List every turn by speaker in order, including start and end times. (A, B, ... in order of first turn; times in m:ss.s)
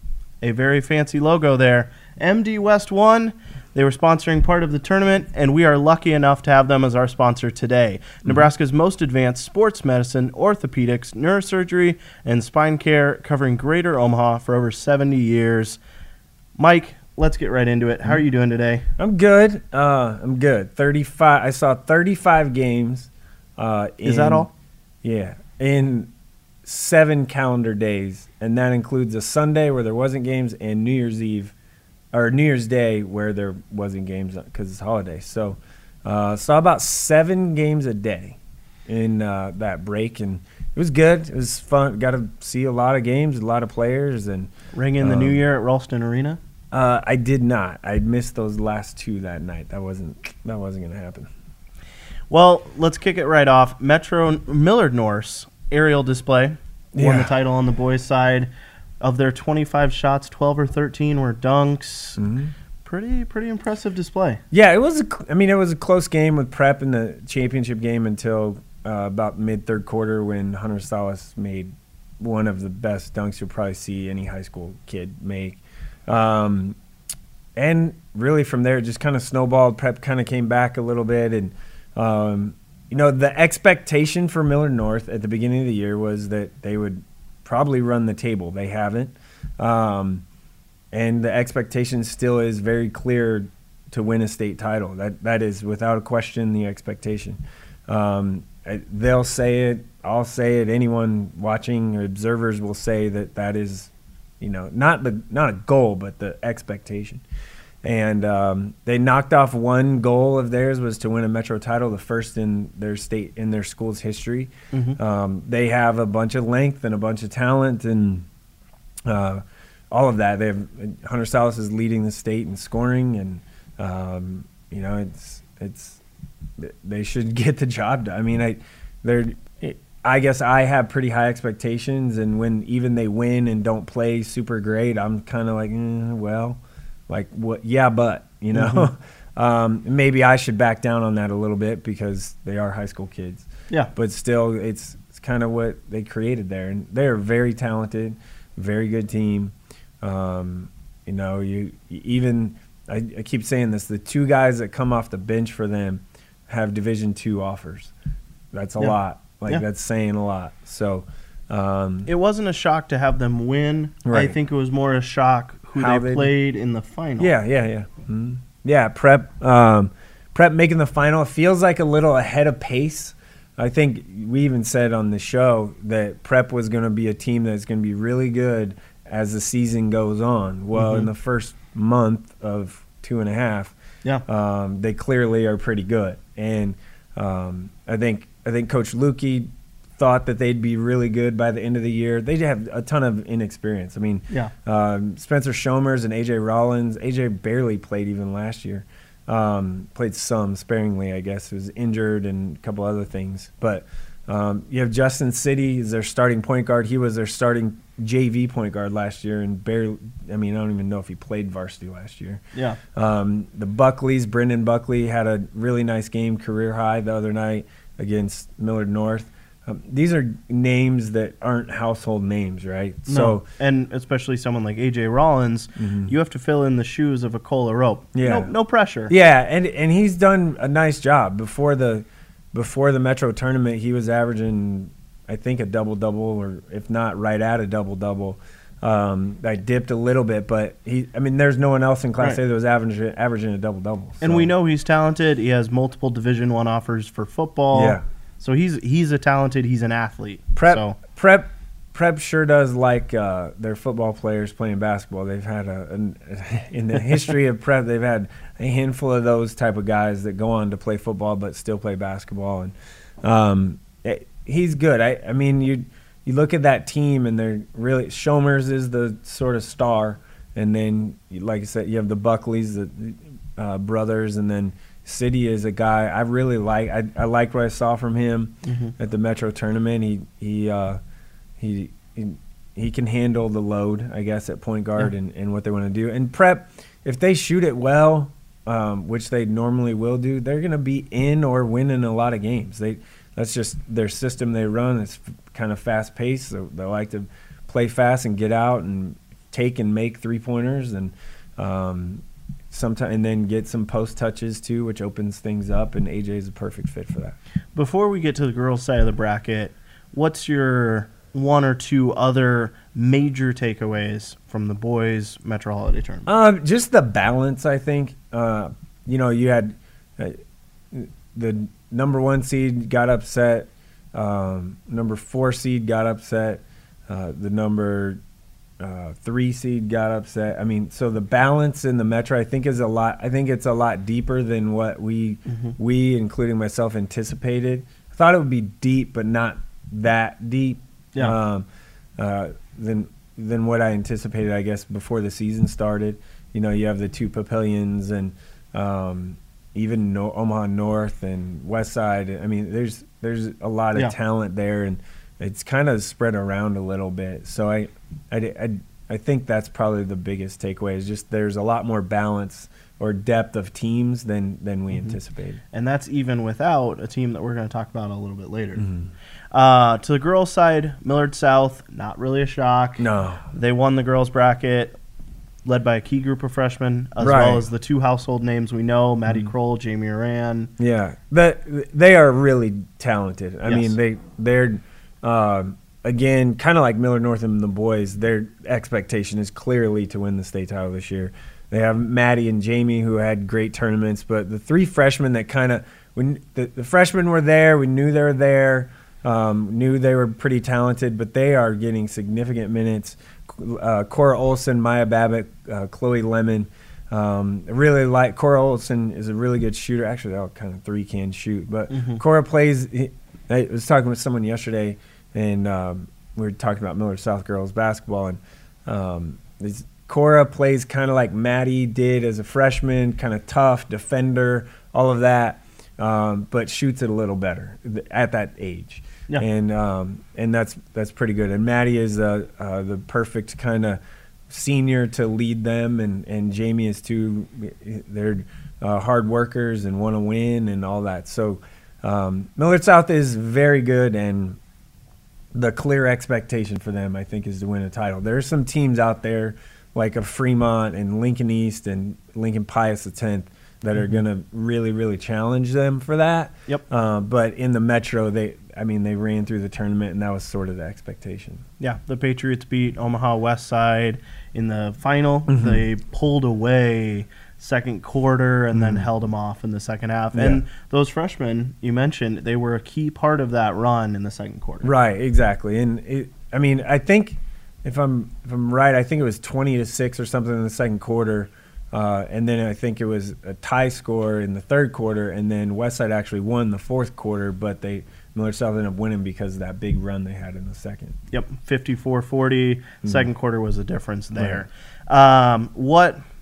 0:00.4-0:15.8 A
0:16.6-0:18.8 A
0:19.0-0:24.5 B
0:24.0-0:24.5 A
0:25.0-0:26.1 B
0:26.6-0:31.5 B
0:32.1-0:45.4 B
0:44.7-0:46.4 A
0:46.7-0:51.3 B
0:52.3-0:58.5 A
0:56.9-0:57.3 B
0:59.0-1:02.2 A
1:02.2-1:02.5 B
1:02.8-1:04.4 A
1:04.5-1:16.8 B
1:17.6-1:30.2 B
1:30.9-1:47.2 B
1:47.8-1:58.3 B
1:54.7-1:55.0 A
1:59.0-2:06.0 B
2:06.6-2:37.9 B
2:18.5-2:18.9 A
2:38.5-2:42.1 B
2:42.0-2:47.3 A
2:44.0-2:44.4 B
2:45.8-2:46.3 B
2:47.2-3:03.7 B
3:00.7-3:01.1 A
3:04.2-3:43.4 B
3:43.1-3:49.1 A
3:45.8-3:46.1 B
3:48.1-3:48.5 B
3:49.1-4:04.5 B
4:04.2-4:11.0 A
4:07.7-4:08.0 B
4:10.6-4:41.0 B
4:38.6-4:38.9 A
4:41.6-5:07.4 B
5:07.7-5:16.3 A
5:16.2-5:20.4 B
5:20.9-5:28.2 B
5:28.8-5:41.7 B
5:35.5-5:35.7 A
5:42.2-6:05.6 B
6:05.7-6:08.8 A
6:08.8-6:09.1 B
6:09.5-6:14.9 A
6:13.0-6:13.4 B
6:15.6-6:20.7 A
6:17.2-6:17.7 B
6:20.8-7:24.6 B
6:23.6-6:23.9 A
6:51.9-6:52.2 A
7:25.5-7:41.6 B
7:41.8-7:54.9 A
7:45.5-7:45.8 B
7:48.7-7:49.1 B
7:50.3-7:50.6 B
7:54.8-8:11.2 B
8:11.3-8:16.2 A
8:14.4-8:14.6 B